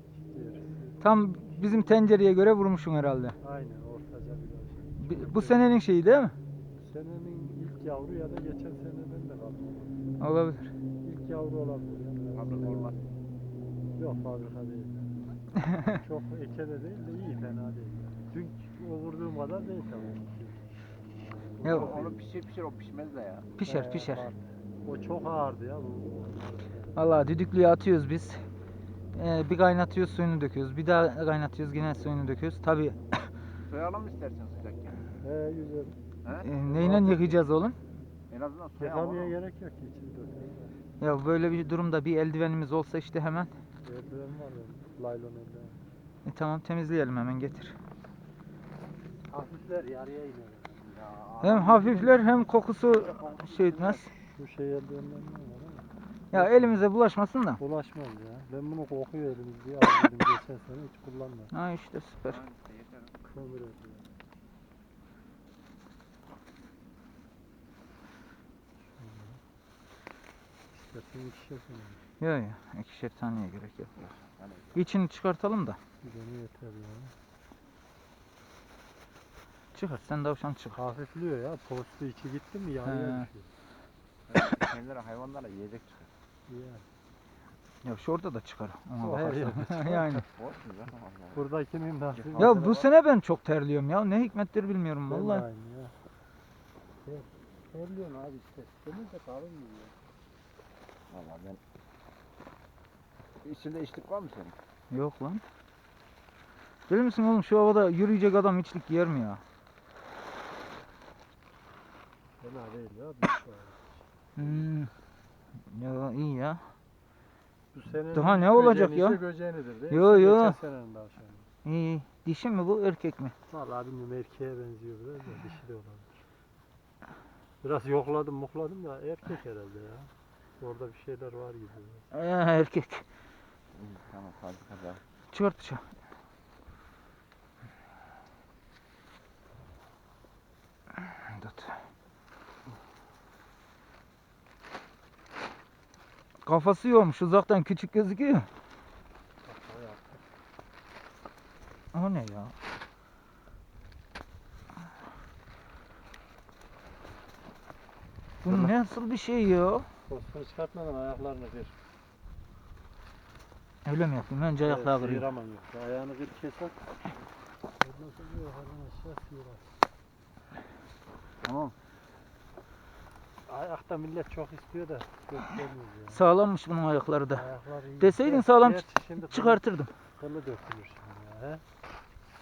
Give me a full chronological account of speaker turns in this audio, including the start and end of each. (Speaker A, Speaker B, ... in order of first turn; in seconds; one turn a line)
Speaker A: 0.1-1.0
Speaker B: 1.0-3.4
Speaker A: 3.4-5.7
Speaker B: 5.0-6.3
Speaker A: 6.8-9.9
Speaker B: 10.2-10.7
Speaker A: 11.0-13.1
Speaker C: 12.3-13.0
Speaker A: 14.0-20.7
Speaker A: 21.5-22.2
Speaker B: 21.6-21.9
Speaker C: 21.6-23.5
Speaker B: 23.6-24.3
Speaker A: 23.6-27.0
Speaker B: 27.0-28.4
Speaker B: 29.1-33.2
Speaker C: 33.7-35.1
Speaker A: 35.2-36.0
Speaker C: 36.2-37.0
Speaker B: 36.4-37.8
Speaker A: 36.6-37.4
Speaker C: 38.3-39.3
Speaker A: 38.8-40.8
Speaker B: 41.0-43.5
Speaker A: 43.8-45.8
Speaker B: 46.2-47.8
Speaker A: 49.3-52.1
Speaker B: 51.4-54.1
Speaker C: 53.5-54.0
Speaker A: 54.1-56.8
Speaker B: 56.3-57.6
Speaker A: 57.6-61.5
Speaker B: 61.5-62.4
Speaker C: 62.3-63.1
Speaker A: 63.2-64.0
Speaker A: 69.0-69.4
Speaker A: 70.7-72.0
Speaker B: 72.2-73.9
Speaker C: 74.0-74.8
Speaker B: 74.8-75.8
Speaker A: 76.0-77.1
Speaker B: 79.7-80.8
Speaker A: 80.8-83.5
Speaker B: 82.9-83.3
Speaker C: 84.3-86.1
Speaker A: 86.5-86.8
Speaker B: 87.8-90.2
Speaker A: 89.0-90.2
Speaker C: 90.3-91.4
Speaker A: 91.3-92.8
Speaker C: 92.2-92.9
Speaker B: 92.4-95.5
Speaker A: 95.1-95.9
Speaker A: 97.0-99.9
Speaker C: 101.1-101.6
Speaker C: 103.4-104.6
Speaker B: 104.9-105.4
Speaker B: 106.9-109.4
Speaker A: 112.4-114.6
Speaker B: 114.4-114.9
Speaker B: 115.7-116.6
Speaker A: 117.7-121.5
Speaker B: 118.1-119.2
Speaker B: 119.9-120.6
Speaker B: 121.7-123.3
Speaker A: 123.5-126.1
Speaker A: 127.6-132.1
Speaker B: 132.1-133.1
Speaker C: 133.7-135.0
Speaker B: 135.3-135.8
Speaker B: 141.0-141.8
Speaker B: 146.4-148.5
Speaker A: 149.4-150.2
Speaker B: 151.9-152.5
Speaker B: 158.4-159.9
Speaker C: 158.5-158.7
Speaker A: 160.1-161.7
Speaker B: 163.8-165.3
Speaker A: 164.6-166.8
Speaker A: 167.8-169.7
Speaker C: 171.4-171.7
Speaker A: 173.5-176.2
Speaker B: 176.1-177.4
Speaker A: 177.3-181.6
Speaker B: 178.0-179.9